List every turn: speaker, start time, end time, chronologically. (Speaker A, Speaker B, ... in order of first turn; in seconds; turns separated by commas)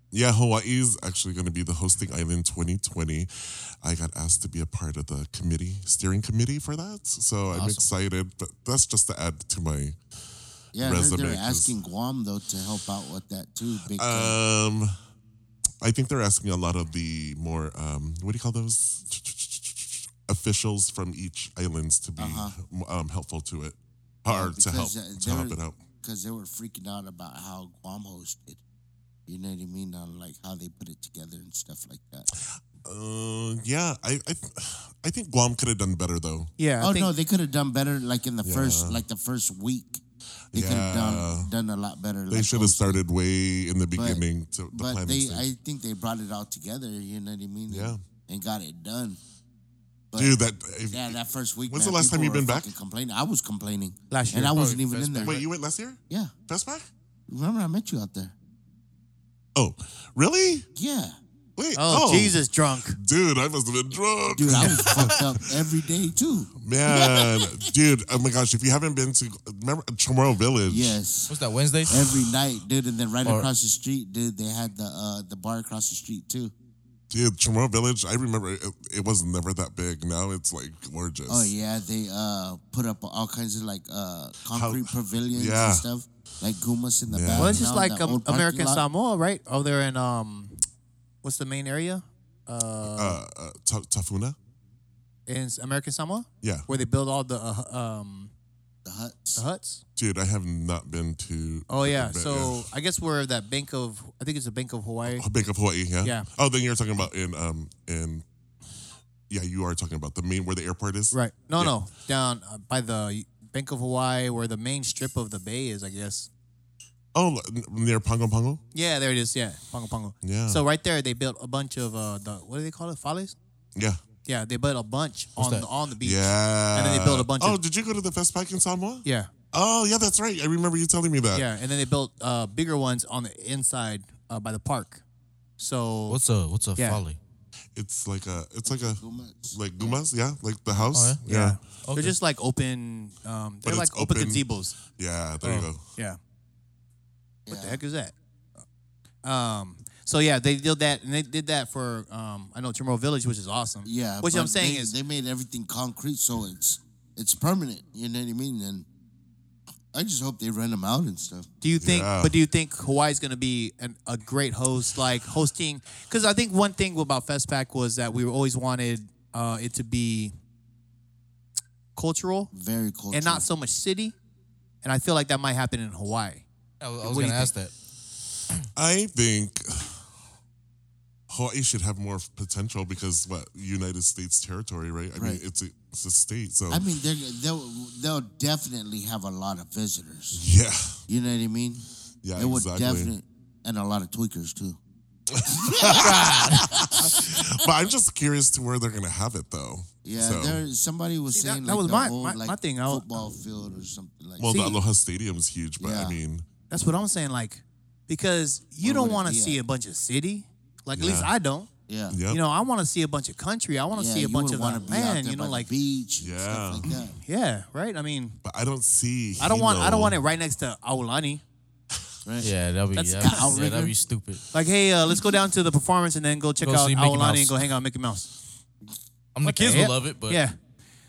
Speaker A: 0.1-10.0, Speaker B: 7.5-7.8, Speaker C: 10.7-14.4, Speaker A: 10.7-11.7, Speaker A: 13.9-14.9, Speaker A: 15.8-25.8, Speaker C: 22.2-22.5, Speaker C: 24.3-28.6, Speaker C: 29.3-32.3, Speaker A: 32.3-36.5, Speaker D: 36.6-37.1, Speaker C: 36.8-40.0, Speaker A: 38.4-39.0, Speaker A: 40.5-41.5, Speaker C: 40.5-43.0, Speaker A: 42.3-45.5, Speaker C: 43.9-49.2, Speaker A: 47.7-48.0, Speaker C: 50.1-55.4, Speaker A: 50.1-52.7, Speaker D: 54.1-54.5, Speaker B: 54.5-55.5, Speaker A: 55.2-56.9, Speaker C: 57.3-58.3, Speaker A: 59.5-60.7, Speaker C: 60.7-61.1, Speaker A: 61.6-65.3, Speaker D: 61.7-63.0, Speaker C: 64.3-67.7, Speaker D: 64.6-64.9, Speaker A: 66.6-71.0, Speaker C: 70.7-71.3, Speaker B: 71.3-72.0, Speaker C: 71.8-76.5, Speaker A: 71.9-72.3, Speaker B: 73.2-73.5, Speaker A: 77.1-81.5, Speaker C: 81.3-88.8, Speaker A: 84.5-85.8, Speaker A: 87.1-87.7, Speaker D: 87.3-90.6, Speaker D: 91.2-93.2, Speaker A: 92.8-94.4, Speaker D: 95.3-98.3, Speaker A: 96.4-96.7, Speaker C: 98.8-99.4, Speaker D: 99.3-99.8, Speaker A: 100.0-102.6, Speaker D: 101.7-105.2, Speaker A: 105.1-108.2, Speaker A: 109.3-111.8, Speaker D: 111.1-116.3, Speaker A: 117.1-118.6, Speaker D: 118.7-123.4, Speaker A: 120.2-120.6, Speaker A: 123.7-124.0, Speaker D: 124.2-127.6, Speaker B: 125.4-125.7, Speaker A: 126.0-131.5, Speaker D: 129.0-129.3, Speaker D: 131.3-135.0, Speaker D: 135.6-136.2, Speaker B: 136.1-137.2, Speaker D: 136.8-137.0, Speaker A: 137.8-141.6, Speaker C: 138.6-140.0, Speaker B: 140.9-141.2, Speaker D: 141.2-144.8, Speaker B: 141.8-142.2, Speaker A: 143.6-145.9, Speaker B: 145.4-145.7, Speaker C: 147.4-147.8, Speaker D: 147.5-148.1, Speaker D: 149.2-154.9, Speaker C: 153.8-158.8, Speaker C: 159.9-161.5, Speaker D: 161.6-170.3, Speaker A: 161.8-162.3, Speaker D: 171.9-172.5, Speaker C: 172.5-173.4, Speaker D: 173.1-174.1, Speaker D: 174.8-176.4, Speaker B: 176.8-177.7, Speaker D: 177.0-177.5, Speaker A: 178.7-180.1, Speaker A: 181.3-186.9, Speaker C: 185.1-185.4, Speaker C: 186.7-190.4, Speaker A: 190.3-191.0, Speaker C: 191.1-194.8, Speaker A: 192.2-193.1, Speaker A: 195.3-200.6, Speaker C: 195.4-197.5, Speaker B: 196.0-196.6, Speaker C: 200.0-204.8, Speaker D: 201.3-203.1, Speaker A: 204.4-206.4, Speaker D: 204.4-204.8, Speaker C: 205.8-206.2, Speaker D: 206.7-211.7, Speaker C: 208.8-209.6, Speaker A: 210.9-211.3, Speaker C: 211.9-212.2, Speaker A: 212.1-212.4, Speaker D: 212.3-215.7, Speaker C: 213.9-217.2, Speaker A: 216.2-216.8, Speaker D: 216.9-218.4, Speaker A: 218.4-220.2, Speaker D: 219.4-221.4, Speaker C: 222.2-222.5, Speaker B: 222.4-224.4, Speaker D: 222.9-223.6, Speaker C: 223.2-223.9, Speaker D: 224.5-228.3, Speaker B: 226.6-227.7, Speaker B: 229.3-230.4, Speaker D: 229.4-230.6